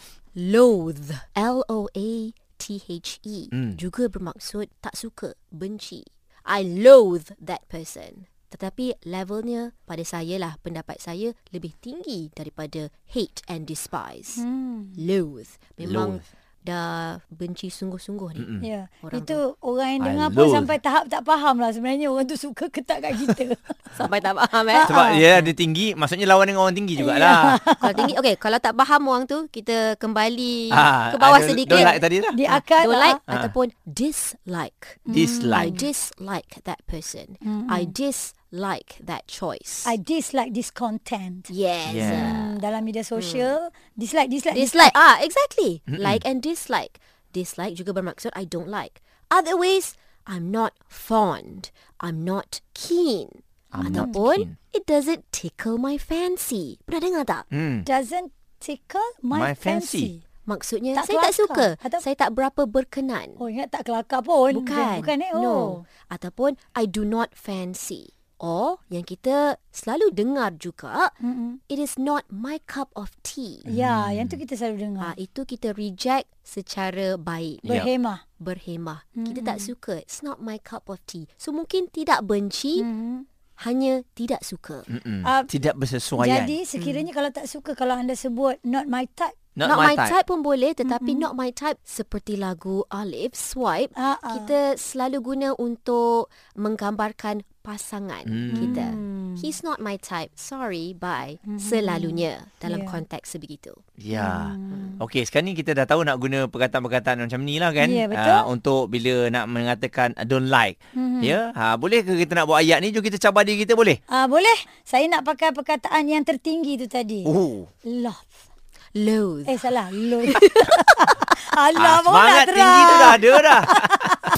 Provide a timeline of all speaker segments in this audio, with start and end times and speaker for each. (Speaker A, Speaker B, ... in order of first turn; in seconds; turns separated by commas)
Speaker A: 0.3-14.4, Speaker B: 3.5-3.8, Speaker C: 14.3-15.0, Speaker A: 15.0-18.5, Speaker B: 15.8-16.2, Speaker B: 18.4-18.7, Speaker C: 18.6-24.0, Speaker A: 19.0-19.4, Speaker B: 20.0-20.7, Speaker A: 23.9-25.5, Speaker C: 24.7-25.2, Speaker B: 24.8-27.7, Speaker C: 27.0-28.1, Speaker A: 27.8-39.9, Speaker B: 30.7-32.5, Speaker C: 31.7-33.2, Speaker C: 35.1-35.8, Speaker B: 35.1-35.8, Speaker C: 37.4-37.9, Speaker C: 39.8-44.9, Speaker A: 41.5-42.5, Speaker B: 41.9-42.4, Speaker A: 43.1-43.5, Speaker A: 44.5-57.5, Speaker B: 45.9-46.2, Speaker B: 53.7-54.5, Speaker C: 53.8-54.1, Speaker B: 57.5-57.9, Speaker C: 57.9-60.2, Speaker B: 59.3-60.1, Speaker A: 60.5-63.4, Speaker C: 61.0-62.0, Speaker C: 63.4-65.8, Speaker A: 64.5-71.2, Speaker C: 71.2-71.6, Speaker A: 71.7-73.7, Speaker C: 73.7-75.1, Speaker B: 73.7-74.4, Speaker A: 75.0-77.8, Speaker C: 77.7-78.2, Speaker A: 78.4-82.8, Speaker C: 79.2-79.7, Speaker C: 82.8-83.2, Speaker A: 83.6-84.9, Speaker B: 84.9-86.6, Speaker C: 85.2-85.5, Speaker C: 86.2-89.3, Speaker A: 86.8-87.0, Speaker B: 89.5-90.1, Speaker A: 89.6-103.8, Speaker C: 90.8-91.2, Speaker C: 94.0-94.5, Speaker B: 98.2-98.8, Speaker C: 98.5-99.5, Speaker C: 101.5-103.0, Speaker B: 104.0-114.0, Speaker C: 104.1-105.0, Speaker C: 107.8-108.5, Speaker C: 110.9-111.4, Speaker C: 114.1-117.3, Speaker B: 117.2-117.7, Speaker C: 117.8-118.2, Speaker A: 118.9-120.8, Speaker C: 119.5-124.1, Speaker B: 121.8-124.3